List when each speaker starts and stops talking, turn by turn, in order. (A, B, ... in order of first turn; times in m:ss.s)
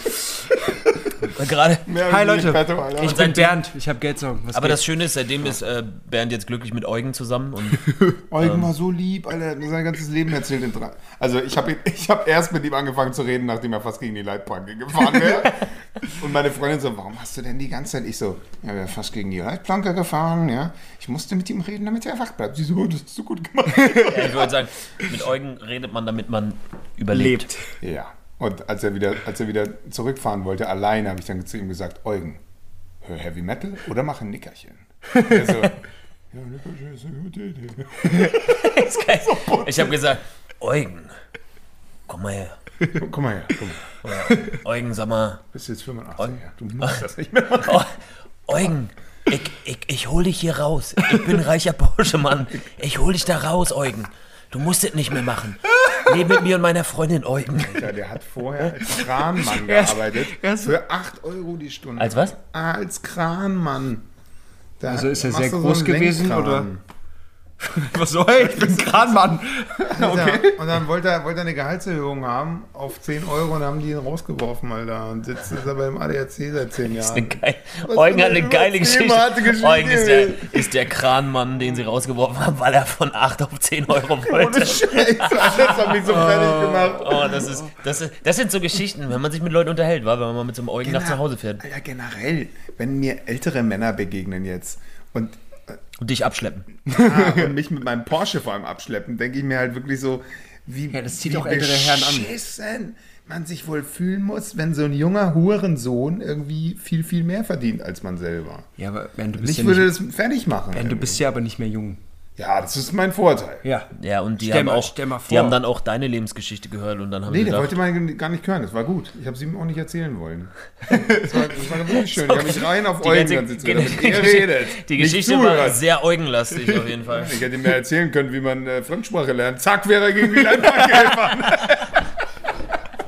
0:01.3-0:01.9 A
0:01.9-0:03.3 B
0:02.0-0:04.8 C
0:02.9-0:03.6 A
0:04.5-0:08.7 A
0:07.9-0:08.2 C
0:08.3-0:24.5 B
0:23.7-0:24.4 C
0:24.0-0:27.5 A
0:27.1-0:27.6 C
0:27.8-0:32.4 B
0:33.0-0:38.7 B
0:35.1-0:35.5 C
0:38.2-0:41.2 A
0:39.2-0:40.0 B
0:42.1-0:42.6 A
0:43.0-0:43.9 B
0:44.0-0:45.4 A
0:45.5-0:47.8 B
0:46.2-0:47.0 A
0:47.6-0:57.9 A
0:57.7-1:04.0 B
0:59.4-1:00.8 C
1:02.0-1:02.4 A
1:04.8-1:06.8 B
1:04.9-1:06.7 C
1:07.6-1:10.6 C
1:09.9-1:20.7 B
1:17.0-1:31.6 A
1:24.3-1:27.6 B
1:30.8-1:35.8 B
1:36.0-1:36.7 A
1:36.9-1:37.5 C
1:36.9-1:48.7 B
1:40.9-1:42.3 C
1:48.8-1:50.0 C
1:49.4-1:51.2 B
1:50.7-1:52.0 C
1:52.4-1:53.6 B
1:53.6-1:55.6 C
1:54.0-1:57.7 A
1:57.3-2:05.8 B
2:00.9-2:01.2 C
2:01.3-2:07.4 A
2:07.1-2:12.1 B